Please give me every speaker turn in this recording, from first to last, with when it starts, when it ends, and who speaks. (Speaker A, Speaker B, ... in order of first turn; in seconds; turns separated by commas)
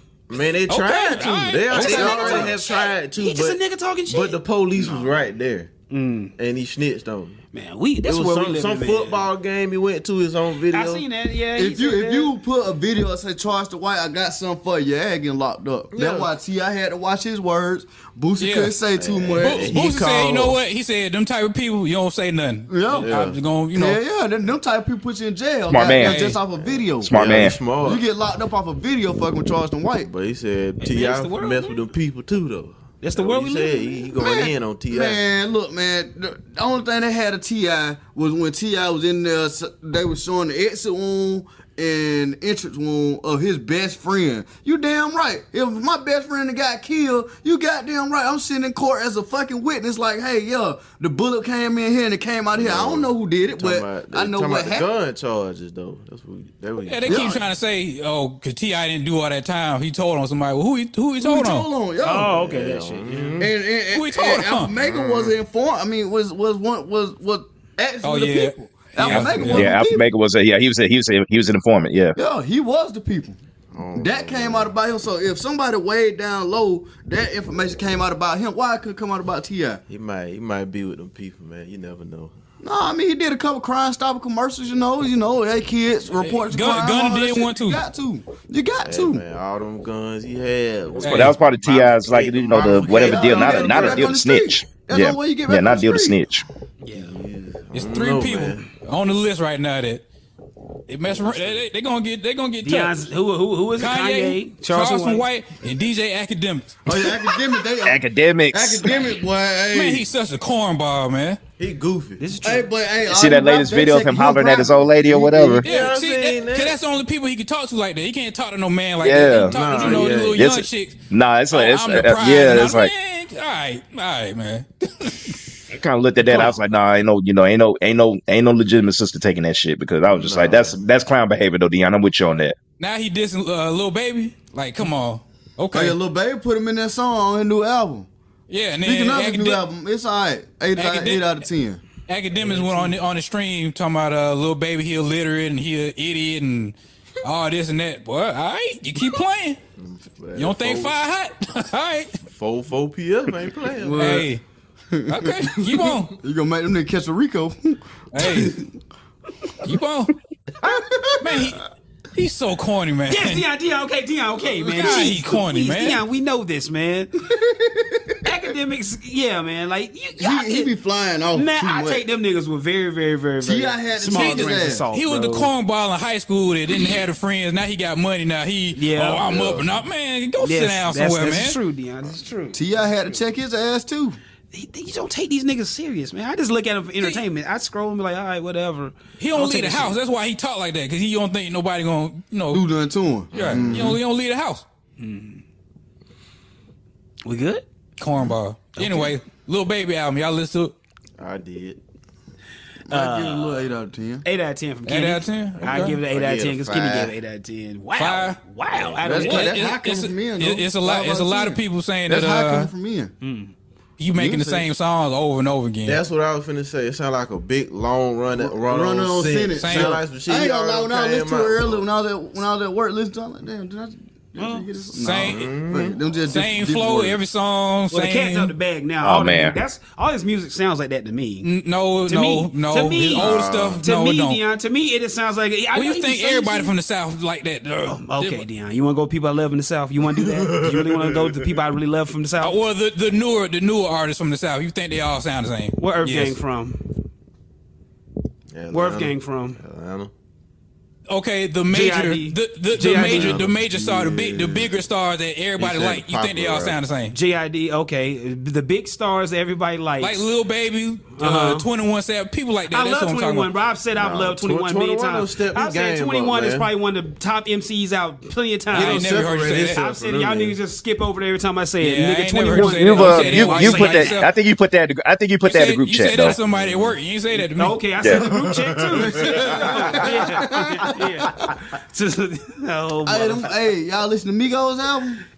Speaker A: 0.3-5.7, Speaker B: 0.7-2.5, Speaker C: 1.7-5.0, Speaker C: 5.9-6.3, Speaker A: 6.4-7.4, Speaker C: 7.5-9.3, Speaker A: 8.0-11.1, Speaker C: 10.7-12.3, Speaker D: 11.6-19.7, Speaker A: 15.9-16.3, Speaker B: 18.4-18.8, Speaker A: 18.9-20.6, Speaker B: 19.4-24.0, Speaker D: 22.7-23.1, Speaker A: 22.9-23.4, Speaker D: 23.7-27.2, Speaker E: 25.7-26.3, Speaker B: 26.0-26.4, Speaker E: 27.0-27.6, Speaker A: 27.1-28.1, Speaker D: 27.8-30.1, Speaker A: 30.0-35.2, Speaker C: 30.8-31.8, Speaker C: 33.0-34.0, Speaker D: 34.1-54.9, Speaker A: 52.5-57.4, Speaker B: 56.9-61.7, Speaker D: 57.1-57.4, Speaker D: 61.2-62.4, Speaker C: 62.0-63.5, Speaker A: 62.1-63.5, Speaker D: 63.4-70.1, Speaker B: 63.9-64.7, Speaker A: 64.8-65.3, Speaker B: 68.0-69.7, Speaker E: 69.1-72.2, Speaker D: 72.2-73.4, Speaker A: 73.7-74.8, Speaker D: 74.0-79.8, Speaker A: 79.9-82.3, Speaker D: 82.6-89.2, Speaker B: 86.2-87.8, Speaker A: 88.8-94.1, Speaker B: 91.0-91.4, Speaker E: 91.0-96.4, Speaker D: 92.7-96.2, Speaker C: 96.8-97.2, Speaker A: 96.9-98.7, Speaker B: 97.7-100.0, Speaker B: 100.9-103.0, Speaker A: 101.1-101.6, Speaker C: 102.6-105.2, Speaker B: 103.8-106.9, Speaker D: 106.8-110.0, Speaker E: 107.8-109.0, Speaker B: 109.7-111.4, Speaker A: 111.6-112.2, Speaker C: 112.2-112.7, Speaker D: 112.4-115.7, Speaker E: 113.1-115.7, Speaker A: 115.6-116.8, Speaker B: 115.7-121.0, Speaker E: 119.0-119.6, Speaker A: 119.5-120.5, Speaker E: 120.3-122.9, Speaker B: 121.5-125.4, Speaker E: 125.7-132.6, Speaker B: 126.2-126.5, Speaker A: 130.1-130.8, Speaker B: 132.8-136.0, Speaker D: 135.7-138.1, Speaker B: 138.5-139.7, Speaker D: 138.8-141.8, Speaker B: 140.8-141.4, Speaker B: 142.1-149.6, Speaker C: 142.5-142.9, Speaker A: 149.8-151.0, Speaker B: 150.4-152.2, Speaker A: 152.3-154.2, Speaker D: 153.8-154.3, Speaker B: 154.0-154.4, Speaker D: 154.9-158.2, Speaker B: 155.1-156.2, Speaker B: 158.1-158.6, Speaker B: 159.6-160.1, Speaker A: 160.6-161.1, Speaker D: 160.7-161.4, Speaker B: 161.2-163.5, Speaker C: 163.1-167.2, Speaker B: 164.7-166.0, Speaker D: 167.3-168.2, Speaker C: 168.2-170.7, Speaker D: 170.2-172.1, Speaker C: 171.3-175.5, Speaker D: 173.4-174.8, Speaker B: 174.1-181.6, Speaker C: 178.7-179.3, Speaker A: 179.2-179.7, Speaker C: 180.4-183.2, Speaker D: 182.5-184.2, Speaker C: 184.5-190.0, Speaker B: 189.2-192.7, Speaker D: 192.5-194.0, Speaker A: 193.3-194.0, Speaker B: 193.3-194.6, Speaker C: 195.0-195.4, Speaker C: 197.2-197.7, Speaker B: 198.0-200.7, Speaker C: 198.8-199.2, Speaker A: 201.2-201.8, Speaker D: 202.9-204.2, Speaker C: 202.9-203.7, Speaker C: 204.2-209.6, Speaker B: 204.9-206.0, Speaker A: 205.6-207.2, Speaker B: 208.0-208.4, Speaker A: 208.8-209.7, Speaker D: 209.1-213.1, Speaker B: 209.1-212.7, Speaker C: 213.2-213.5, Speaker B: 214.0-216.0, Speaker D: 214.2-214.7, Speaker A: 215.8-221.8, Speaker D: 218.3-227.2, Speaker B: 219.6-220.0, Speaker C: 224.4-224.7, Speaker B: 225.0-225.4, Speaker A: 225.1-226.0, Speaker B: 226.3-228.5, Speaker C: 227.9-231.5, Speaker E: 229.0-229.6, Speaker B: 231.4-234.4, Speaker C: 232.1-236.7, Speaker A: 233.2-233.8, Speaker B: 235.7-238.4, Speaker C: 237.9-242.6, Speaker A: 240.2-241.5, Speaker B: 242.4-246.4, Speaker C: 245.8-246.9, Speaker A: 248.5-250.1, Speaker C: 248.7-249.6, Speaker B: 251.1-257.1, Speaker C: 251.7-253.4, Speaker A: 252.7-254.7, Speaker A: 255.6-256.8, Speaker C: 257.1-260.2, Speaker B: 260.0-263.5, Speaker C: 261.2-261.7, Speaker C: 262.7-274.2, Speaker A: 263.9-266.7, Speaker B: 268.7-269.8, Speaker A: 268.7-270.6, Speaker B: 271.8-274.3, Speaker E: 272.5-276.4, Speaker B: 275.4-277.8, Speaker A: 276.3-277.0, Speaker C: 277.4-283.5, Speaker D: 278.1-281.1, Speaker A: 279.0-280.1, Speaker D: 283.1-285.2